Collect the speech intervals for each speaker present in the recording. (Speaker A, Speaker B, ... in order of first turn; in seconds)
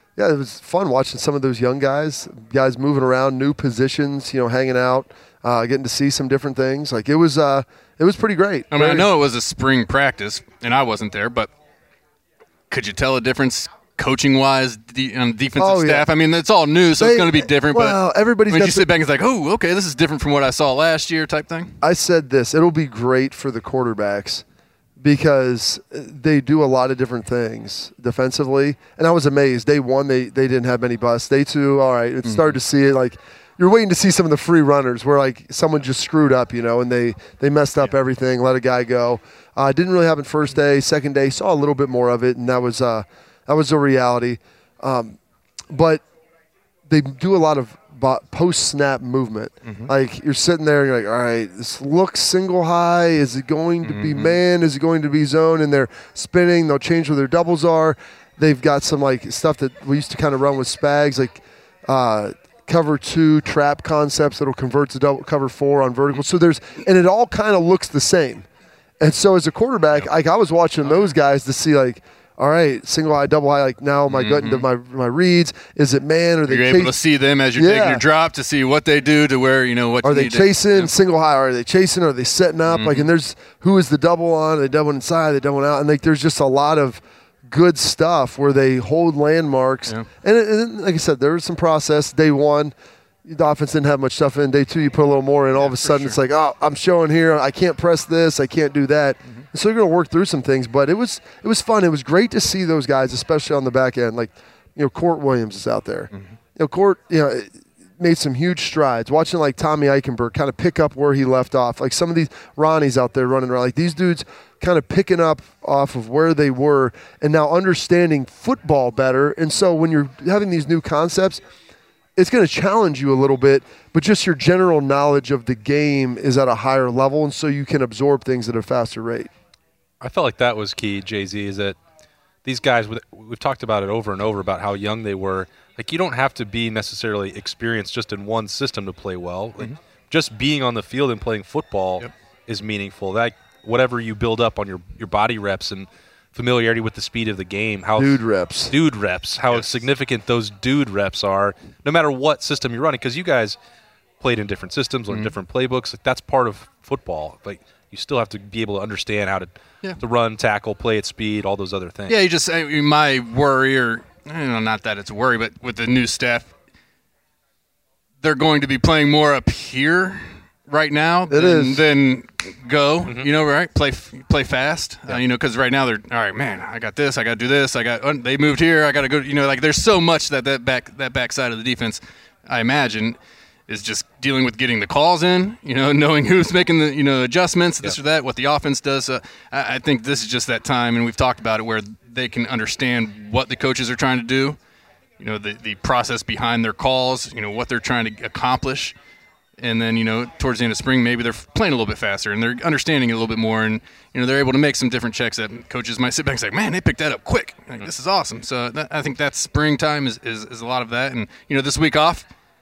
Speaker A: 0.2-9.1, 15.6-16.1, 17.0-18.9, 21.8-24.4, 25.0-45.2, 45.7-46.0, 46.9-68.5, 69.0-77.0, 77.5-78.0, 80.0-92.7, 93.2-121.4, 122.2-129.3, 148.0-148.7, 171.3-171.8
Speaker B: 8.7-11.5, 12.7-21.8, 32.2-32.6, 49.7-49.9, 53.8-54.4, 74.1-74.7, 76.5-80.9, 82.7-83.1, 95.6-96.2, 149.5-149.8, 162.1-166.5, 168.2-183.2, 183.7-194.6, 195.2-198.9, 199.6-212.3
Speaker C: 130.0-131.8, 132.4-148.2, 148.7-153.6, 154.2-162.2